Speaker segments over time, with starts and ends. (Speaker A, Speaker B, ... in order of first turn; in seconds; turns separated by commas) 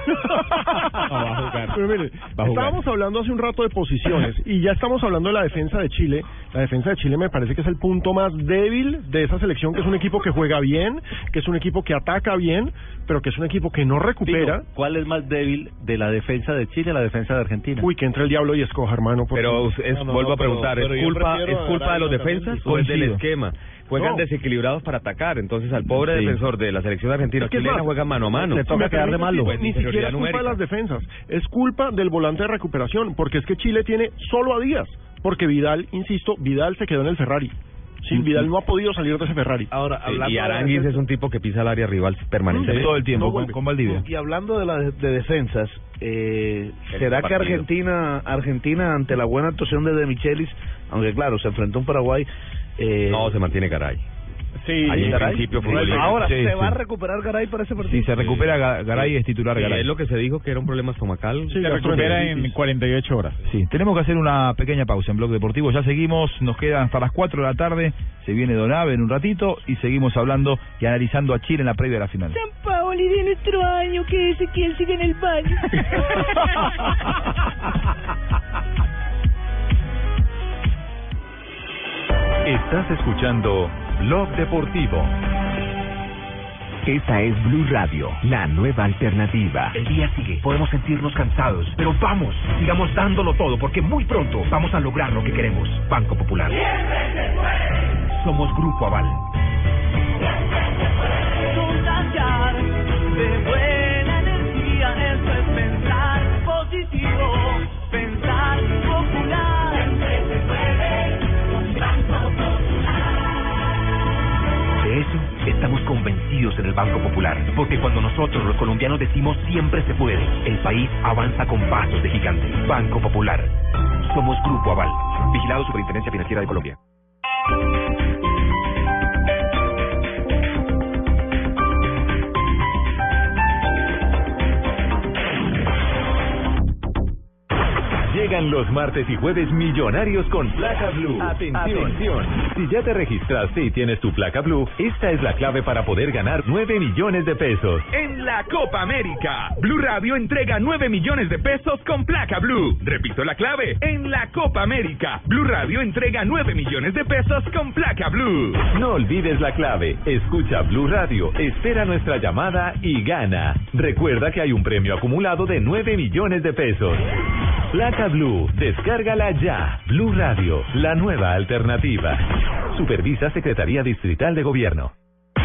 Speaker A: 0.3-1.1, Speaker A: 1.7-14.6, Speaker B: 2.3-2.8, Speaker C: 14.2-17.9, Speaker A: 17.8-19.7, Speaker D: 19.3-30.6, Speaker E: 19.9-22.7, Speaker F: 22.6-23.2, Speaker A: 27.4-39.7, Speaker C: 28.9-29.5, Speaker E: 39.7-41.0, Speaker D: 40.0-43.0, Speaker F: 42.5-44.0, Speaker E: 42.6-53.3, Speaker D: 46.9-47.6, Speaker D: 53.1-54.0, Speaker D: 54.9-56.3, Speaker E: 54.9-58.1, Speaker F: 54.9-56.8, Speaker F: 57.8-59.9, Speaker D: 58.1-62.3, Speaker A: 61.5-62.5, Speaker B: 61.5-63.4, Speaker F: 63.4-72.4, Speaker G: 72.3-76.2, Speaker H: 82.5-85.1, Speaker I: 86.8-96.6, Speaker I: 98.2-99.2, Speaker I: 114.8-123.5, Speaker I: 124.1-126.8, Speaker H: 138.0-147.9, Speaker J: 147.9-158.6, Speaker H: 158.7-167.0, Speaker H: 167.7-174.9